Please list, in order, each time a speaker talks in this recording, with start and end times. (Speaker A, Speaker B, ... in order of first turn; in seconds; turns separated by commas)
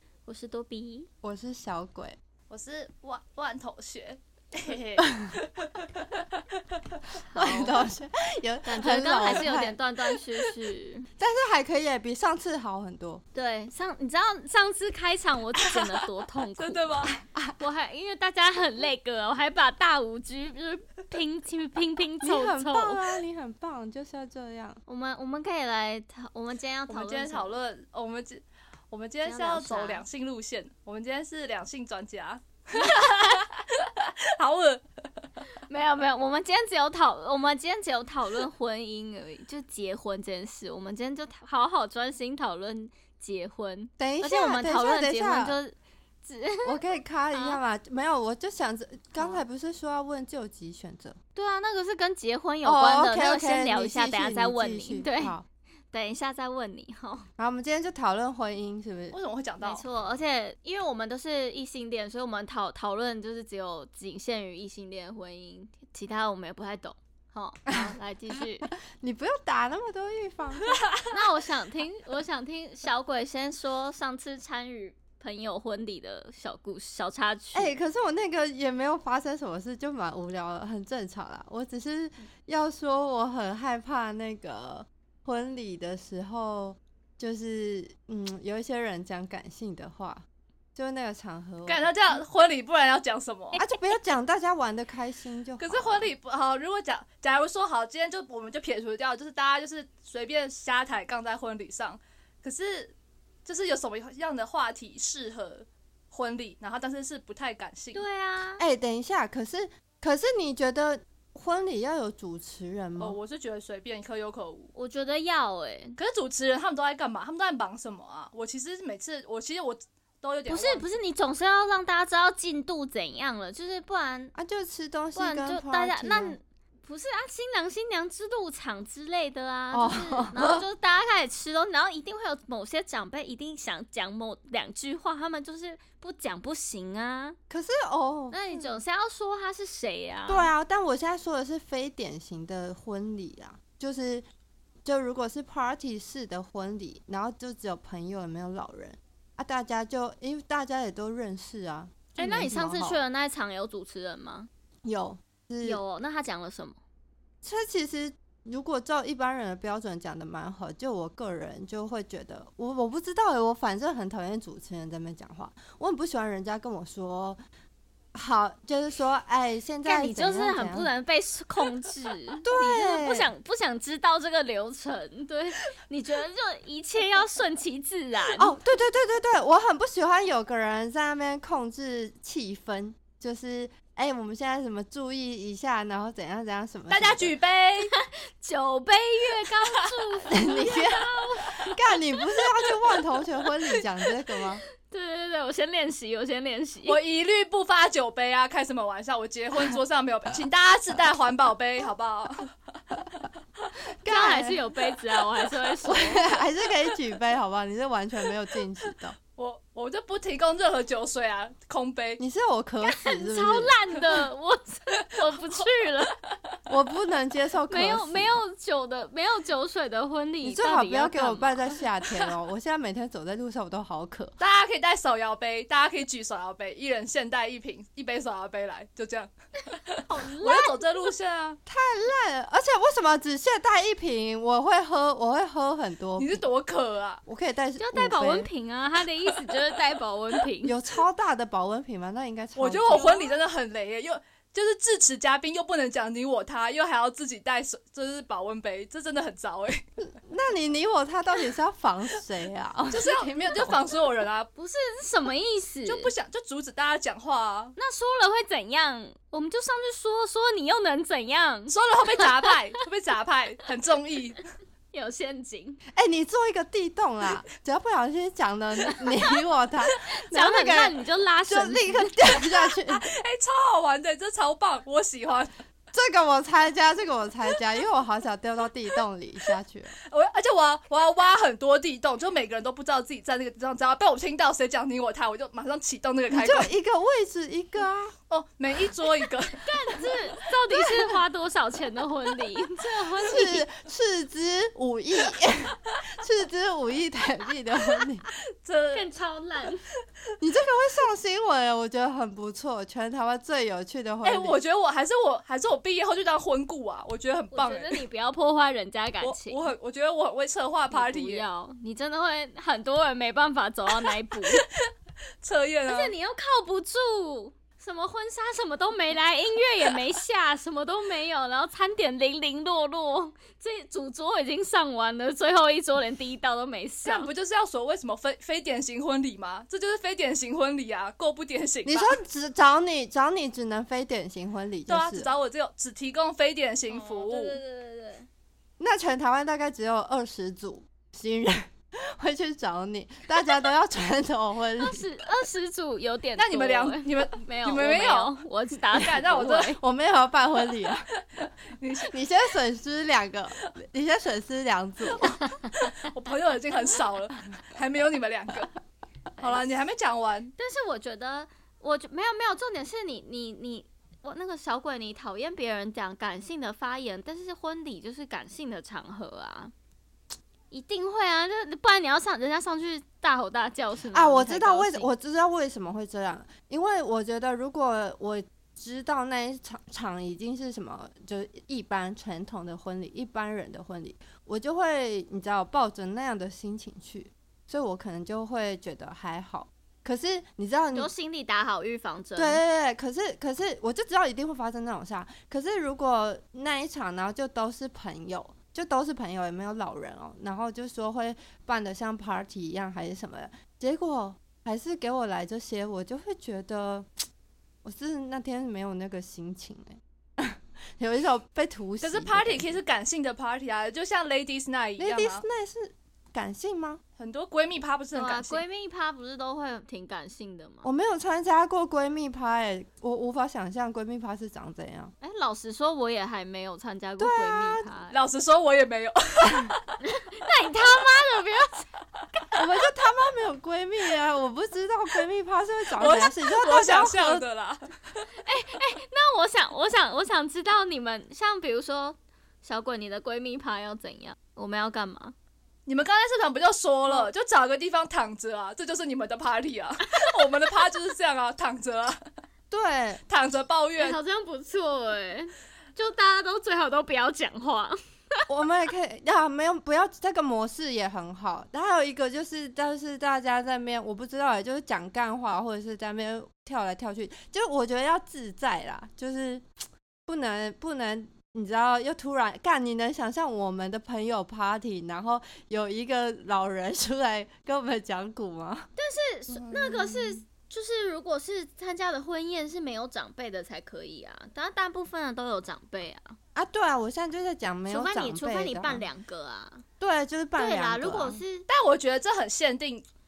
Speaker A: 0.2-1.1, Speaker B: 1.2-2.1, Speaker C: 2.5-6.4, Speaker A: 7.2-7.8, Speaker B: 7.3-9.8, Speaker A: 8.6-11.1, Speaker B: 11.2-13.2, Speaker A: 13.3-23.0, Speaker C: 16.6-17.2, Speaker B: 17.2-17.5, Speaker B: 22.2-24.8, Speaker A: 24.9-27.5, Speaker C: 26.9-34.8, Speaker A: 29.2-30.0, Speaker A: 35.7-46.8, Speaker B: 44.0-45.6, Speaker B: 46.6-51.2, Speaker A: 47.3-47.6, Speaker A: 49.2-49.4, Speaker A: 51.3-55.3, Speaker B: 52.6-55.4, Speaker A: 55.9-57.3, Speaker B: 57.4-59.2, Speaker C: 59.1-59.8, Speaker A: 59.6-68.7, Speaker B: 67.7-67.9, Speaker B: 68.7-70.8, Speaker A: 71.1-77.8, Speaker B: 77.5-90.2, Speaker B: 90.8-91.8, Speaker C: 91.7-93.6, Speaker B: 93.6-96.1, Speaker C: 95.6-102.9, Speaker C: 103.4-108.0, Speaker A: 107.9-108.6, Speaker B: 108.6-113.2, Speaker C: 113.0-114.7, Speaker A: 114.7-116.0, Speaker C: 116.0-120.8, Speaker A: 120.5-124.3, Speaker B: 124.3-126.3, Speaker A: 125.1-137.4, Speaker B: 129.7-130.7, Speaker B: 137.5-138.7, Speaker A: 138.3-140.5, Speaker B: 140.3-144.2, Speaker B: 144.8-153.0, Speaker A: 152.2-154.5, Speaker B: 154.8-155.8, Speaker A: 155.6-156.8, Speaker B: 157.4-167.4, Speaker B: 168.1-170.9, Speaker A: 169.8-178.5, Speaker B: 172.4-173.3, Speaker B: 178.3-187.3, Speaker C: 186.9-187.9, Speaker A: 187.8-191.8, Speaker B: 190.3-194.6, Speaker A: 194.8-197.0, Speaker C: 196.8-202.5, Speaker B: 204.0-204.6, Speaker A: 204.1-206.2, Speaker B: 205.8-209.2, Speaker C: 209.4-212.2, Speaker B: 212.2-213.7, Speaker A: 212.8-216.1, Speaker B: 216.7-218.3, Speaker A: 217.7-221.8, Speaker B: 220.4-224.3, Speaker C: 224.4-231.6, Speaker A: 229.9-230.8, Speaker B: 231.7-236.4, Speaker C: 236.2-237.2, Speaker B: 237.2-238.5, Speaker A: 237.8-240.8, Speaker B: 240.6-243.1, Speaker C: 242.6-249.8, Speaker A: 242.9-243.3, Speaker B: 250.2-253.8, Speaker C: 252.9-254.5, Speaker A: 254.6-256.1, Speaker C: 255.8-257.7, Speaker A: 257.8-261.7, Speaker C: 261.7-264.4, Speaker A: 264.9-265.8, Speaker B: 265.9-270.9, Speaker A: 270.0-272.2, Speaker B: 271.5-273.0, Speaker C: 272.8-275.5, Speaker B: 275.9-279.9, Speaker C: 280.1-286.7, Speaker B: 286.3-288.1, Speaker C: 288.3-289.6, Speaker A: 289.6-293.6, Speaker B: 290.7-291.0, Speaker B: 293.2-298.3, Speaker C: 298.6-299.1, Speaker A: 298.9-299.8, Speaker B: 300.4-304.6, Speaker C: 304.2-308.0, Speaker A: 307.5-309.7, Speaker C: 309.2-311.4, Speaker A: 310.9-314.6, Speaker C: 315.4-316.1, Speaker A: 315.9-327.3, Speaker C: 327.0-332.2, Speaker B: 331.8-335.3, Speaker C: 334.9-337.6, Speaker A: 336.9-338.3, Speaker B: 338.8-345.0, Speaker A: 344.8-349.8, Speaker C: 346.4-348.3, Speaker C: 348.9-349.8, Speaker B: 349.7-351.1, Speaker C: 351.4-352.1, Speaker B: 352.1-355.4, Speaker C: 355.7-358.7, Speaker C: 359.4-360.5, Speaker A: 359.4-359.7, Speaker A: 360.6-369.7, Speaker A: 370.7-375.1, Speaker B: 374.1-391.1, Speaker A: 390.9-392.6, Speaker B: 392.4-407.1, Speaker B: 407.8-412.7, Speaker C: 412.0-415.4, Speaker B: 415.0-417.0, Speaker C: 417.2-418.6, Speaker A: 418.1-420.9, Speaker B: 420.8-425.1, Speaker A: 425.2-428.2, Speaker B: 427.2-427.9, Speaker C: 428.1-429.9, Speaker A: 430.0-431.9, Speaker B: 432.5-437.4, Speaker C: 435.9-438.2, Speaker A: 438.4-445.3, Speaker C: 445.9-452.2, Speaker B: 452.7-453.2, Speaker C: 453.3-454.2, Speaker A: 454.0-458.0, Speaker B: 458.5-469.6, Speaker B: 470.3-478.9, Speaker A: 479.0-486.4, Speaker B: 479.5-480.4, Speaker B: 486.5-489.0, Speaker A: 487.9-489.8, Speaker B: 490.0-491.4, Speaker A: 490.6-491.7, Speaker C: 491.7-493.0